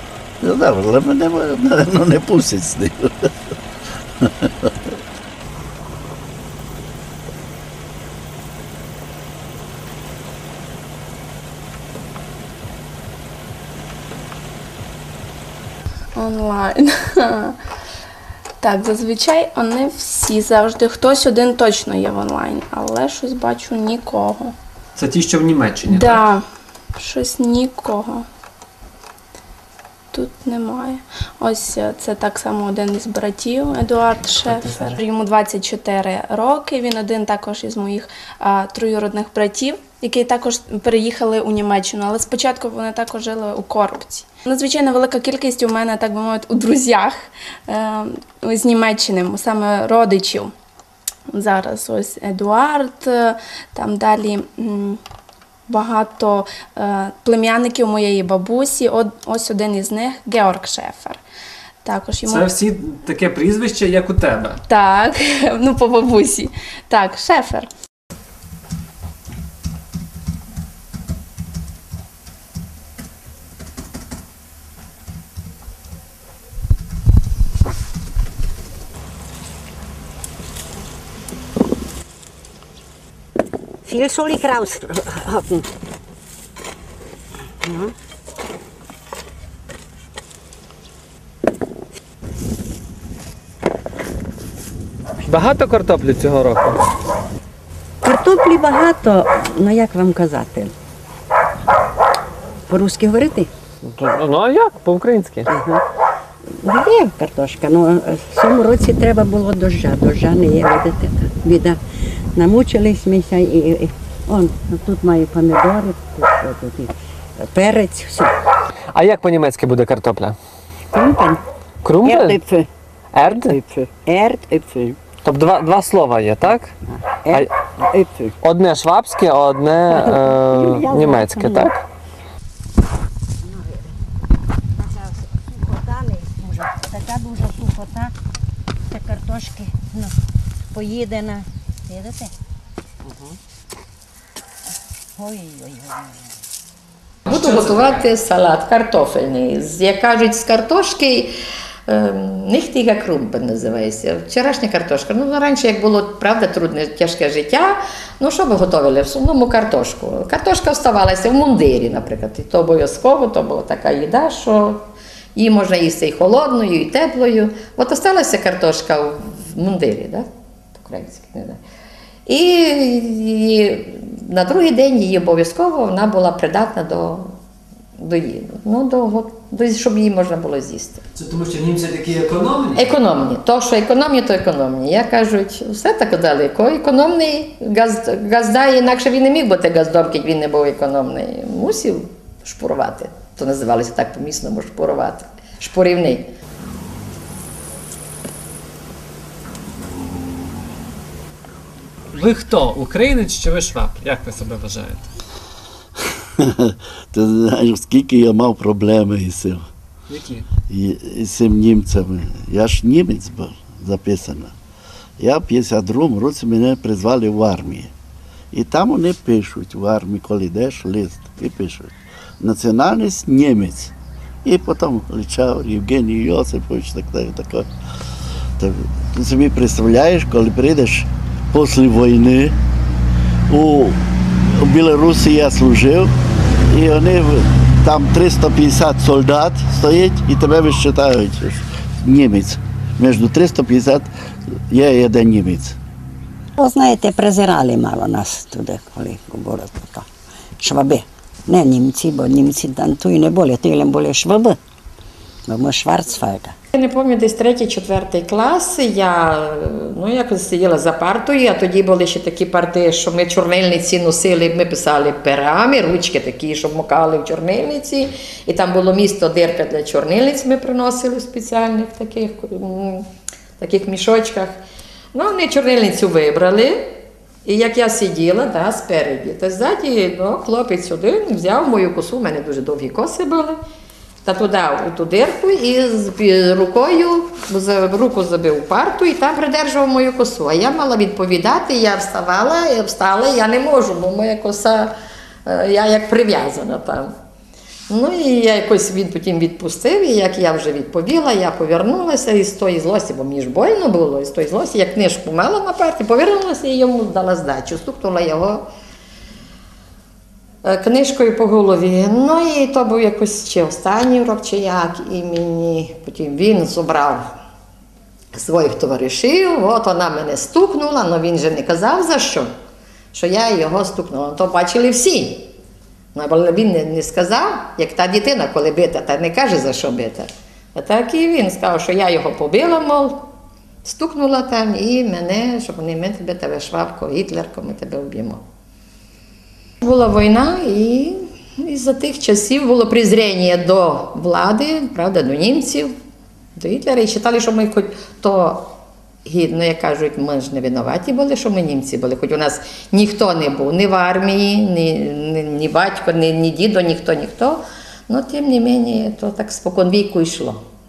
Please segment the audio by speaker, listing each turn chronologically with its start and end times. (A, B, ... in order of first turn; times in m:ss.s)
0:00.4-0:03.3 A
0:04.2-0:04.7 A
0:16.2-0:17.6 B
0:18.6-0:24.6 B
0:25.0-0:26.2 C
0:25.8-0:26.4 B
0:27.0-0:28.3 B
0:30.1-0:50.5 B
0:34.5-0:35.0 C
0:51.3-0:55.0 B
0:55.7-1:01.2 B
1:01.8-1:02.5 B
1:02.2-1:04.6 C
1:04.7-1:07.7 B
1:23.8-1:25.7 D
1:27.6-1:27.9 D
1:35.2-1:36.8 C
1:38.0-1:40.7 D
1:42.7-1:43.5 D
1:43.8-1:45.5 C
1:45.5-1:45.8 D
1:46.6-1:51.8 D
1:52.3-1:58.3 D
1:58.9-2:00.4 C
2:00.9-2:01.4 D
2:01.8-2:02.4 C
2:02.0-2:02.7 D
2:03.1-2:03.6 C
2:03.2-2:05.0 D
2:05.2-2:06.7 C
2:07.2-2:08.4 D
2:08.4-2:11.8 C
2:09.9-2:11.8 D
2:15.5-2:18.1 D
2:18.9-2:20.1 D
2:20.7-2:22.3 D
2:23.1-2:23.4 C
2:25.2-2:26.1 D
2:27.2-2:28.1 C
2:27.2-2:31.3 E
2:31.9-2:51.6 E
2:52.2-2:57.3 E
2:58.0-3:01.0 E
3:01.1-3:02.9 C
3:02.8-3:16.3 E
3:22.1-3:25.1 C
3:26.4-3:29.6 A
3:30.1-3:30.5 C
3:30.7-3:34.5 A
3:35.2-3:37.9 A
3:38.5-3:43.9 A
3:44.4-3:47.7 A
3:48.6-3:52.6 A
3:53.5-3:56.1 A
3:56.7-4:04.1 A
4:04.7-4:05.8 A
4:06.6-4:10.1 D
4:10.6-4:14.6 D
4:15.4-4:16.6 D
4:16.7-4:33.1 E
4:33.6-4:34.6 E
4:35.1-4:43.6 E
4:44.2-4:54.9 E
4:55.4-4:57.1 E
4:57.9-5:08.6 E
5:10.6-5:17.2 E
5:18.3-5:22.5 E
5:23.1-5:25.5 E
5:26.1-5:33.3 E
5:33.8-5:38.4 E
5:39.8-5:45.9 E
5:46.6-6:00.6 E